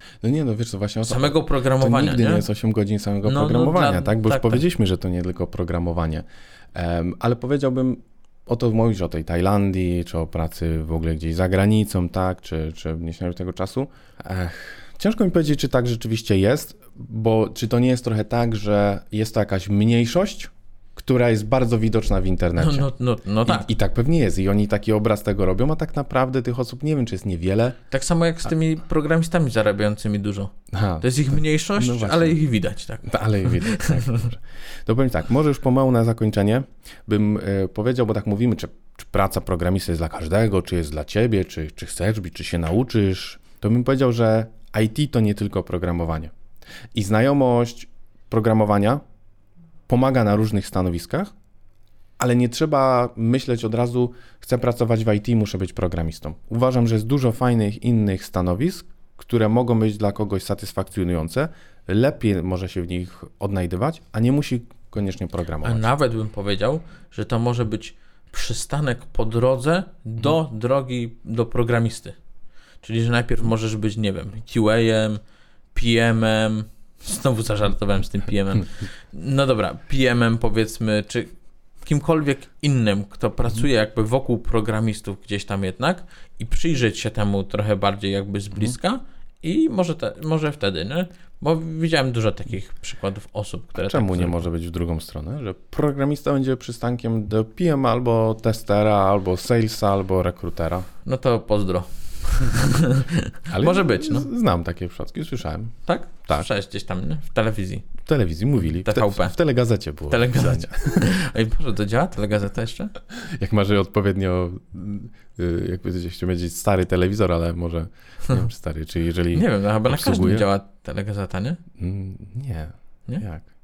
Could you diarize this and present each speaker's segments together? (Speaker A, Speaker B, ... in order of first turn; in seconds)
Speaker A: 0.2-22.9, 23.5-27.8, 30.7-32.4, 33.0-46.3, 46.9-49.0, 49.9-51.3, 52.2-65.9, 93.8-100.9, 103.5-106.5, 108.0-111.1, 113.1-120.5, 121.8-123.5
Speaker B: 1.0-2.5, 3.2-4.6, 22.6-23.7, 27.9-34.2, 65.6-72.2, 72.8-75.2, 75.7-81.3, 81.8-94.5, 101.1-104.3, 105.9-107.9, 108.8-109.4, 110.1-112.9, 119.3-121.6